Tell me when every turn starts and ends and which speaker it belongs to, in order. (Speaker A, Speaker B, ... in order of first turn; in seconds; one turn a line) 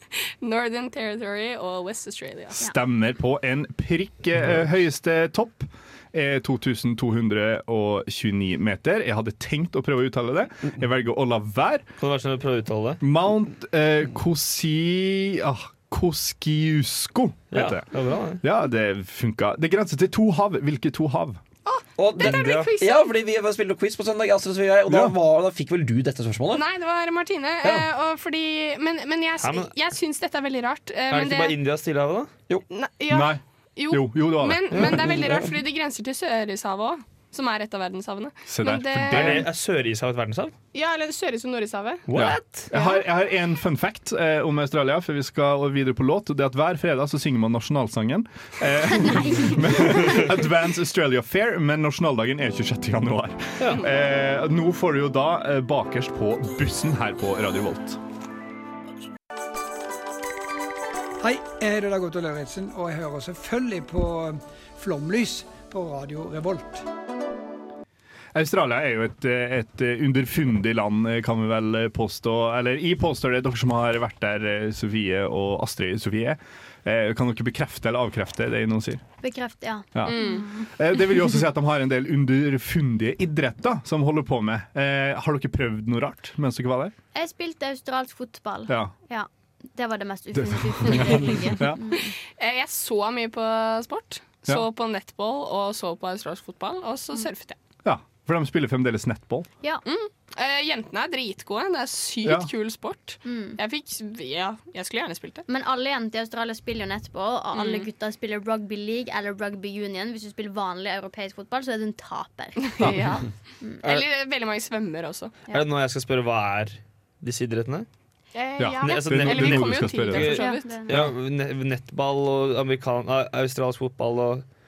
Speaker A: 0.4-2.6
Speaker B: 2.6-11.8
Speaker C: 12.0-13.0
Speaker B: 13.0-17.9
Speaker C: 17.5-18.4
Speaker B: 18.4-21.4
Speaker A: 21.6-23.1
Speaker D: 22.0-26.7
Speaker B: 24.9-25.1
Speaker A: 26.5-31.6
Speaker D: 27.6-27.9
Speaker C: 29.4-29.7
Speaker C: 31.1-32.3
Speaker A: 32.7-39.4
Speaker B: 33.1-35.0
Speaker C: 34.7-35.2
Speaker B: 38.5-39.5
Speaker C: 39.1-40.5
Speaker A: 40.7-43.0
Speaker C: 42.1-42.5
Speaker B: 42.1-58.0
Speaker E: 49.1-49.4
Speaker C: 53.6-53.9
Speaker F: 61.2-66.8
Speaker B: 68.3-79.0
Speaker E: 79.2-80.7
Speaker B: 79.9-86.9
Speaker A: 80.0-80.5
Speaker E: 87.1-92.1
Speaker B: 90.4-91.8
Speaker A: 92.4-97.5
Speaker B: 97.8-99.5
Speaker A: 99.8-105.4
Speaker E: 103.2-103.6
Speaker E: 105.5-112.8
Speaker A: 107.5-107.9
Speaker A: 112.6-113.3
Speaker A: 113.8-115.4
Speaker C: 115.5-117.9
Speaker A: 118.3-121.0
Speaker B: 118.6-120.4
Speaker C: 118.8-124.4
Speaker E: 120.3-120.9